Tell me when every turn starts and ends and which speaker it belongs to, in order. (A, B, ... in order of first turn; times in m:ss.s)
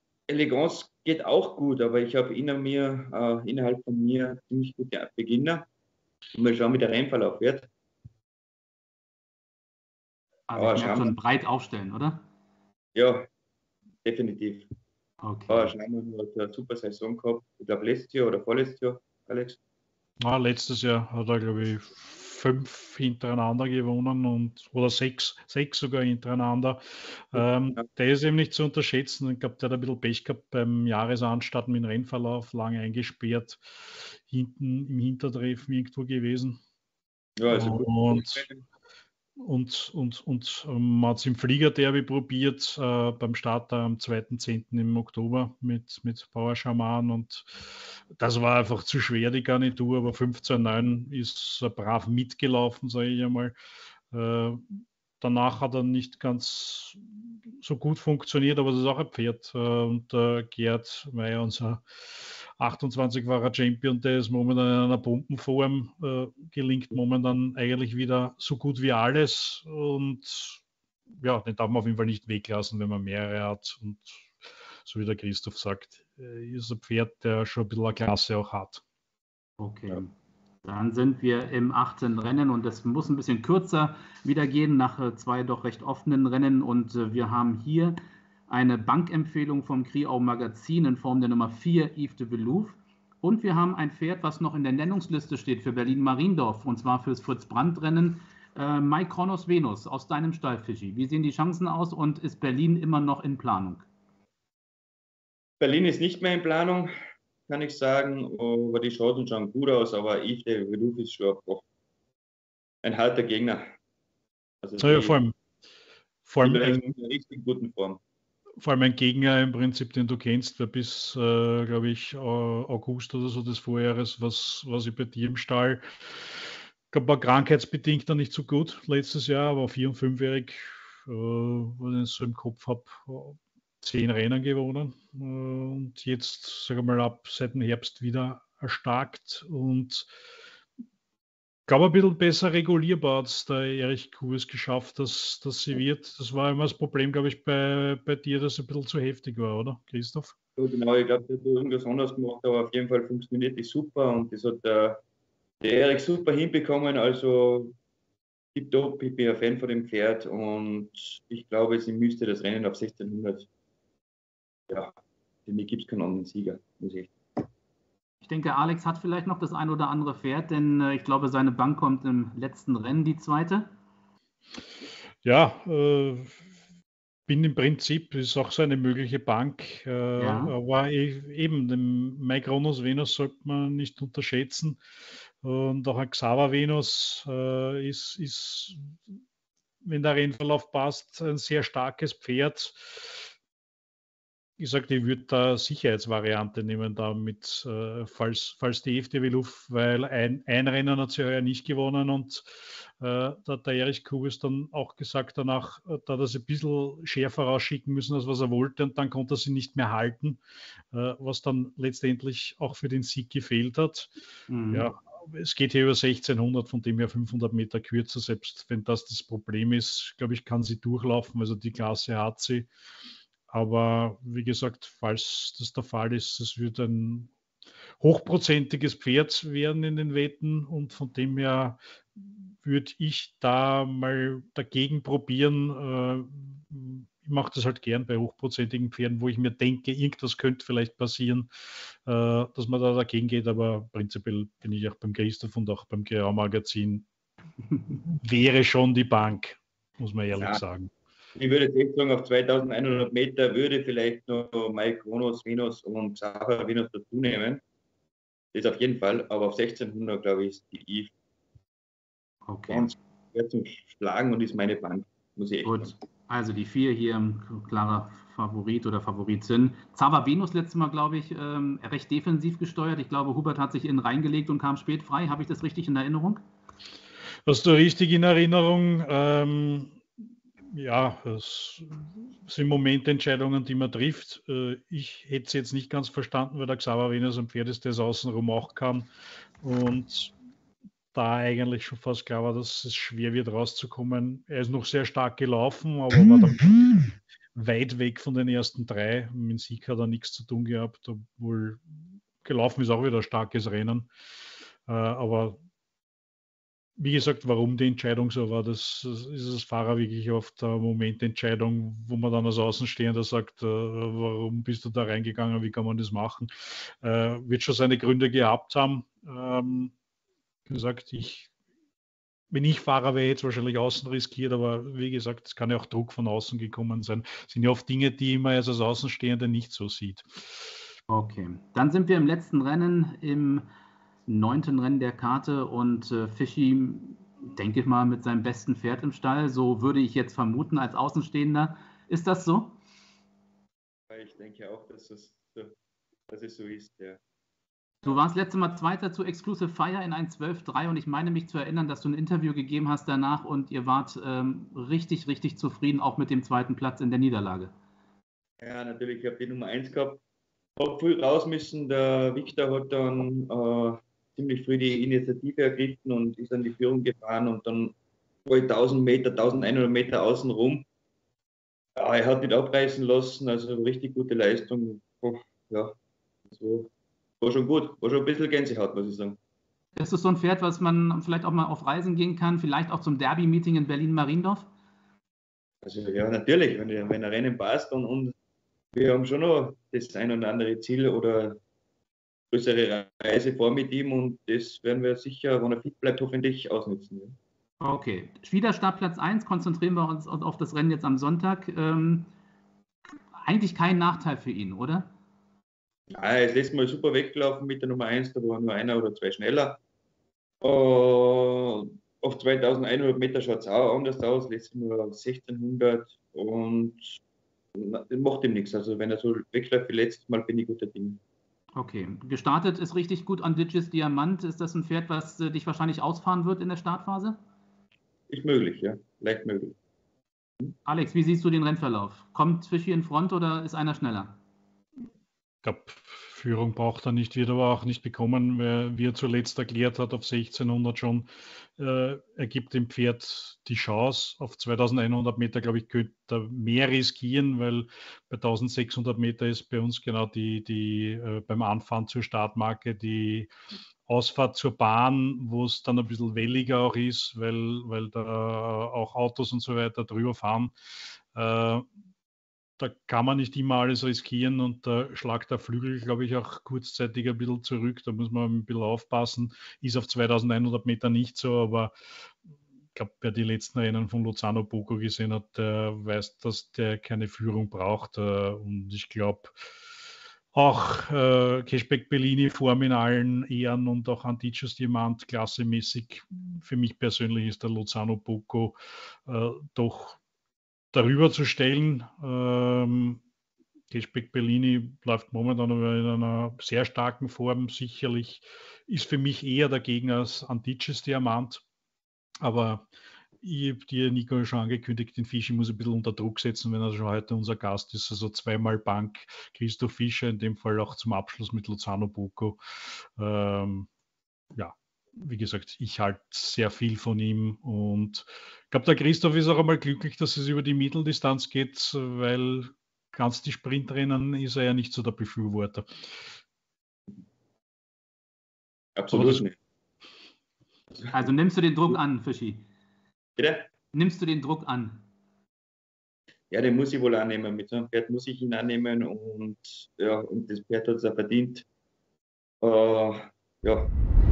0:00.3-0:05.6 A
0:06.3-0:07.7 A
0:10.5-0:12.2 B
0:10.6-0:11.1 A
0:13.0-0:13.3 A
0:14.0-0:14.7 A
0:15.2-0:15.7 B
0:15.5-0:19.6 A
0:20.2-0:36.6 C
0:27.4-0:27.8 A
0:37.4-0:38.6 A
0:37.5-0:38.4 C
0:39.4-0:53.6 C
0:54.1-0:57.0 C
0:57.6-1:10.6 C
1:11.2-1:14.3 C
1:14.8-1:18.8 C
1:19.6-1:20.1 B
1:20.6-1:28.0 B
1:28.5-1:43.8 B
1:45.6-1:46.9 A
1:47.5-1:51.6 A
1:52.8-1:53.6 A
1:54.6-1:55.2 A
1:54.8-1:55.3 C
1:56.3-1:56.8 C
1:56.4-1:58.0 A
1:58.6-2:20.1 C
2:21.7-2:30.4 C
2:30.6-2:35.0 A
2:35.6-2:37.7 A
2:38.6-2:43.5 A
2:44.7-2:45.0 A
2:45.5-2:47.1 A
2:48.2-2:53.7 B
2:55.2-2:56.4 C
2:57.3-3:04.8 C
3:00.2-3:00.5 B
3:05.4-3:09.0 C
3:09.8-3:13.3 C
3:14.6-3:30.4 C
3:30.9-3:34.1 C
3:34.5-3:34.9 B
3:34.7-3:42.7 C
3:43.5-3:47.3 C
3:48.0-4:01.5 C
4:02.1-4:07.1 C
4:08.2-4:10.9 C
4:10.4-4:10.6 A
4:11.4-4:17.6 A
4:18.5-4:21.1 A
4:22.5-4:22.9 B
4:22.7-4:25.9 A
4:25.6-4:36.4 B
4:37.5-4:40.0 C
4:40.7-4:49.1 C
4:49.6-4:50.3 C
4:51.1-5:01.8 C
5:02.4-5:04.1 C
5:04.9-5:05.6 C
5:07.0-5:19.9 C
5:20.7-5:21.5 C
5:22.5-5:30.7 C
5:31.1-5:33.6 B
5:34.3-5:42.8 B
5:44.1-5:45.7 A
5:46.3-5:47.2 A
5:48.0-5:57.7 B
5:58.6-6:00.2 A
6:00.8-6:07.9 A
6:08.5-6:10.8 A
6:12.0-6:16.0 A
6:16.5-6:16.9 A
6:17.4-6:19.4 A
6:20.0-6:24.6 B
6:25.8-6:28.3 A
6:28.9-6:31.6 A
6:32.5-6:37.4 A
6:37.8-6:42.3 B
6:43.4-6:45.1 B
6:46.1-6:49.8 A
6:50.6-6:57.2 A
6:57.8-7:01.2 A
7:01.8-7:07.4 B
7:08.3-7:09.8 A
7:10.9-7:14.4 B
7:15.6-7:33.5 C
7:34.1-7:40.7 C
7:41.3-7:41.9 C
7:42.8-7:51.9 C
7:52.9-7:59.5 C
8:00.5-8:08.8 C
8:09.3-8:10.2 C
8:10.9-8:13.2 C
8:13.9-8:21.6 C
8:22.4-8:22.9 C
8:23.4-8:33.9 C
8:34.5-8:45.9 C
8:49.0-8:49.5 A
8:49.1-8:49.4 C
8:51.1-8:52.6 B
8:53.4-8:53.7 A
8:53.9-8:55.0 B
8:56.5-9:01.6 A
9:02.6-9:03.9 A